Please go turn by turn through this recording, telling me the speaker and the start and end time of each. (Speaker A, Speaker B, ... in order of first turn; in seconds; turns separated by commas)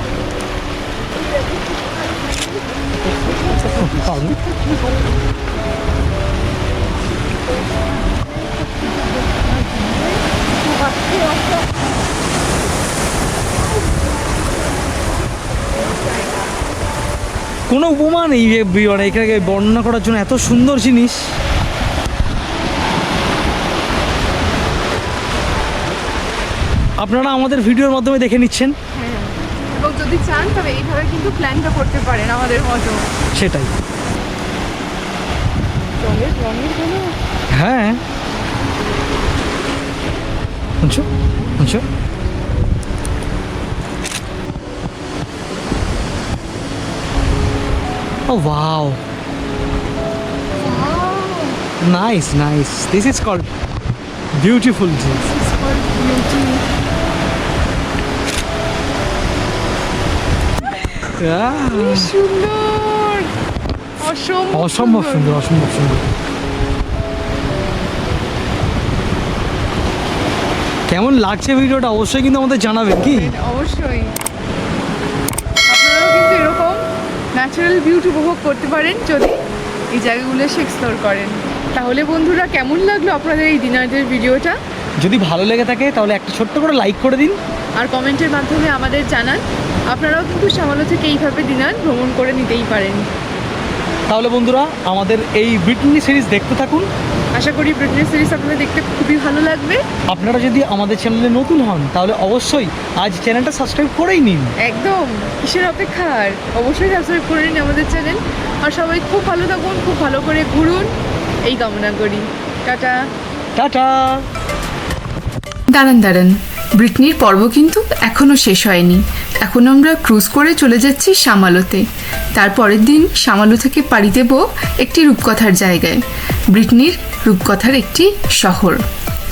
Speaker A: 3.2-5.1, Speaker B: 3.7-4.4, Speaker A: 8.2-10.2, Speaker A: 10.8-11.4, Speaker B: 17.7-21.4, Speaker B: 27.0-28.7, Speaker A: 28.9-33.1, Speaker B: 33.3-33.7, Speaker A: 36.0-37.1, Speaker B: 37.5-38.0, Speaker B: 40.8-41.9, Speaker B: 48.3-49.0, Speaker A: 50.6-51.6, Speaker B: 51.8-53.5, Speaker B: 54.4-55.2, Speaker A: 55.2-56.6, Speaker B: 61.1-62.1, Speaker A: 61.6-63.3, Speaker A: 64.0-65.4, Speaker B: 64.5-66.0, Speaker B: 70.9-73.3, Speaker A: 73.1-74.1, Speaker A: 75.7-79.4, Speaker A: 79.9-84.5, Speaker B: 85.0-87.4, Speaker A: 87.8-93.0, Speaker B: 94.1-96.9, Speaker A: 97.3-99.8, Speaker B: 100.1-104.5, Speaker A: 104.6-113.0, Speaker B: 113.5-114.3, Speaker C: 115.7-121.8, Speaker C: 122.3-126.0, Speaker C: 126.5-128.8